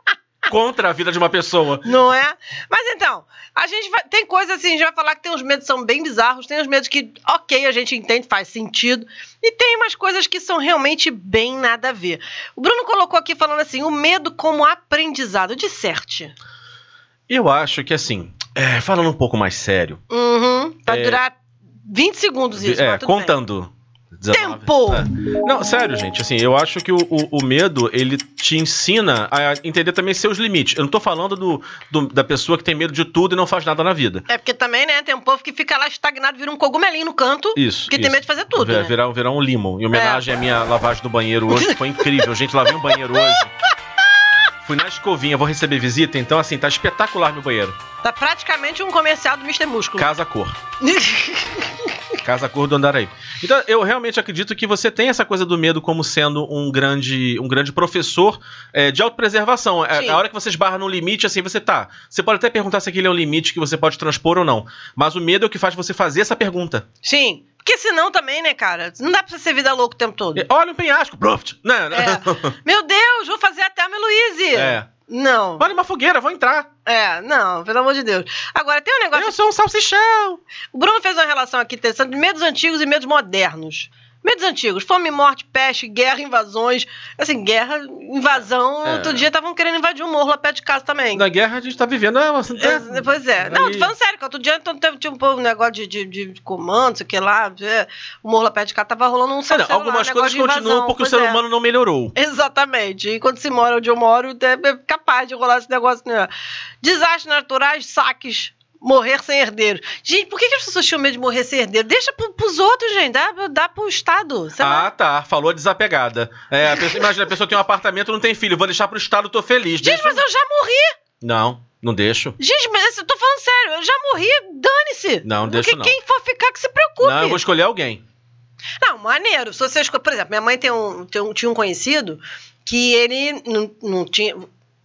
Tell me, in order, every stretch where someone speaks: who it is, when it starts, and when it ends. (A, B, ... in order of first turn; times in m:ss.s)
0:00.5-0:01.8 A
0:01.8-0:16.3 B
0:17.3-0:20.0 A
0:20.1-0:23.3 B
0:20.9-0:21.2 A
0:22.6-0:34.2 A
0:24.3-0:25.0 B
0:34.3-0:38.9 B
0:37.6-0:43.5 A
0:39.9-0:40.2 B
0:44.6-0:47.8 A
0:48.0-0:50.1 B
0:50.0-0:50.6 A
0:50.8-0:51.8 B
0:52.2-1:06.9 A
1:07.0-1:10.4 B
1:10.4-1:12.5 A
1:11.9-1:15.6 B
1:14.5-1:14.9 A
1:15.6-1:16.7 A
1:16.9-1:19.4 B
1:19.2-1:20.4 A
1:20.7-1:31.2 B
1:28.8-1:29.3 A
1:31.1-1:33.9 A
1:32.6-1:41.4 B
1:39.5-1:42.1 A
1:42.2-1:46.3 B
1:46.8-1:54.9 B
1:54.6-2:00.2 A
1:59.8-2:01.0 B
2:01.2-2:02.4 A
2:02.4-2:07.4 B
2:05.2-2:06.0 A
2:07.0-2:08.0 A
2:08.8-2:14.5 B